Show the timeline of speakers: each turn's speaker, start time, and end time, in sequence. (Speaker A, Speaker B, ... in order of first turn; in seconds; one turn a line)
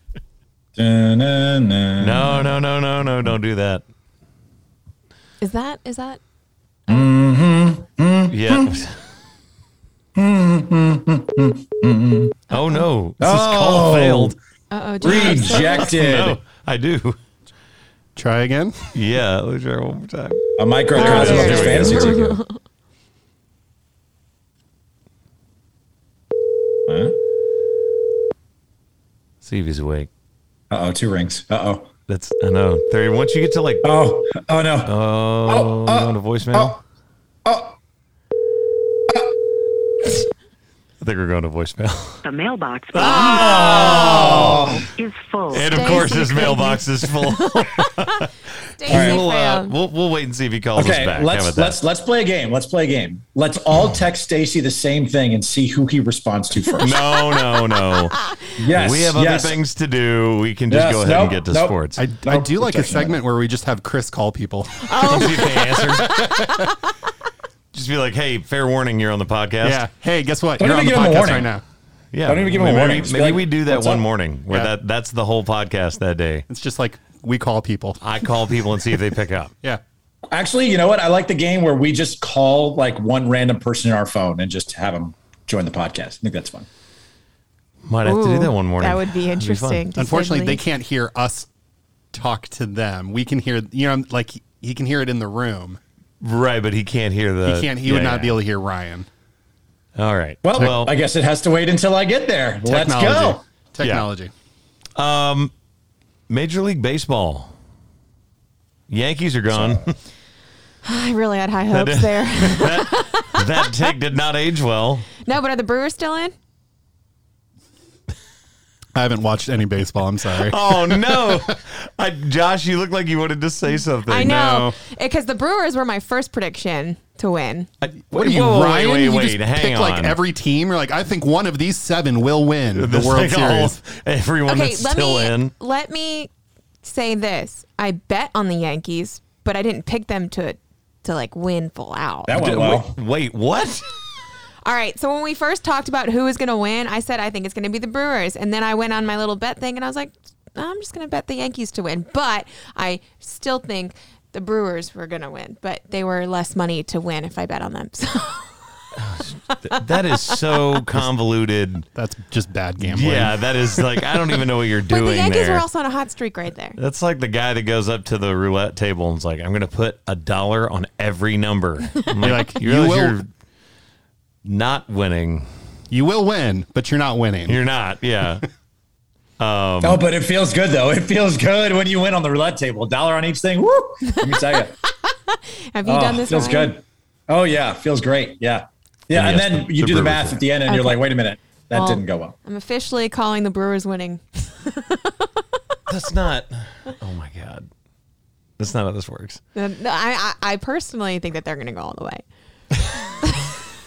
Speaker A: 0.8-2.6
Speaker B: 2.0-3.8
Speaker C: 5.4-6.2
Speaker A: 6.9-8.8
Speaker B: 8.3-9.0
Speaker A: 10.2-12.4
Speaker B: 12.5-14.4
Speaker C: 12.5-12.9
Speaker A: 13.2-14.3
Speaker C: 14.7-15.9
Speaker A: 15.0-16.4
Speaker B: 15.1-17.2
Speaker D: 18.2-18.9
Speaker B: 18.9-22.4
Speaker A: 20.6-22.2
Speaker C: 20.9-22.6
Speaker A: 26.9-27.2
Speaker B: 29.4-30.1
Speaker A: 30.7-31.9
Speaker B: 32.1-33.9
Speaker A: 33.8-34.9
Speaker B: 34.9-36.8
Speaker A: 35.5-36.8
Speaker A: 37.5-37.8
Speaker B: 41.0-42.2
Speaker E: 42.2-46.3
Speaker B: 42.9-44.8
Speaker C: 43.0-44.5
Speaker A: 43.3-44.9
Speaker C: 45.5-48.2
Speaker B: 45.5-51.8
Speaker C: 48.8-49.8
Speaker A: 48.9-49.2
Speaker A: 50.8-57.0
Speaker C: 56.7-58.4
Speaker B: 56.8-62.0
Speaker A: 58.6-59.6
Speaker A: 60.7-63.1
Speaker D: 62.0-66.7
Speaker C: 64.8-66.4
Speaker B: 65.0-66.1
Speaker B: 67.7-69.8
Speaker D: 69.6-71.6
Speaker A: 70.6-71.5
Speaker B: 72.1-76.5
Speaker A: 72.2-74.0
Speaker D: 76.5-78.0
Speaker B: 78.0-79.5
Speaker A: 80.3-86.7
Speaker B: 87.8-89.9
Speaker C: 88.0-90.6
Speaker D: 90.0-91.5
Speaker D: 92.1-95.8
Speaker B: 96.2-98.4
Speaker D: 97.5-99.1
Speaker B: 100.0-100.9
Speaker A: 100.4-103.4
Speaker D: 102.7-104.3
Speaker B: 103.8-104.1
Speaker B: 105.0-105.5
Speaker B: 106.3-107.5
Speaker B: 108.9-109.9
Speaker A: 109.5-109.8
Speaker C: 110.8-113.7
Speaker B: 111.7-115.1
Speaker C: 115.2-116.3
Speaker D: 119.0-120.6
Speaker B: 120.4-124.5
Speaker C: 124.1-127.7
Speaker D: 124.2-124.8
Speaker B: 127.8-130.2
Speaker D: 128.1-133.8
Speaker B: 132.7-135.5
Speaker C: 134.5-136.3
Speaker C: 136.8-142.4
Speaker A: 142.3-143.0
Speaker B: 142.3-143.9
Speaker C: 144.6-158.5
Speaker B: 159.0-161.9
Speaker C: 159.7-160.6
Speaker D: 161.9-163.4
Speaker B: 162.8-165.7
Speaker C: 164.9-166.8
Speaker B: 166.8-173.3
Speaker D: 172.2-173.2
Speaker B: 174.4-175.5
Speaker D: 175.9-177.6
Speaker B: 177.5-178.4
Speaker B: 179.4-180.0
Speaker A: 179.8-184.8
Speaker C: 185.1-186.7
Speaker A: 185.8-192.3
Speaker B: 189.1-190.4
Speaker C: 190.7-191.0
Speaker C: 191.7-195.4
Speaker B: 195.9-197.7
Speaker B: 198.6-199.4
Speaker C: 199.6-202.2
Speaker C: 203.2-203.5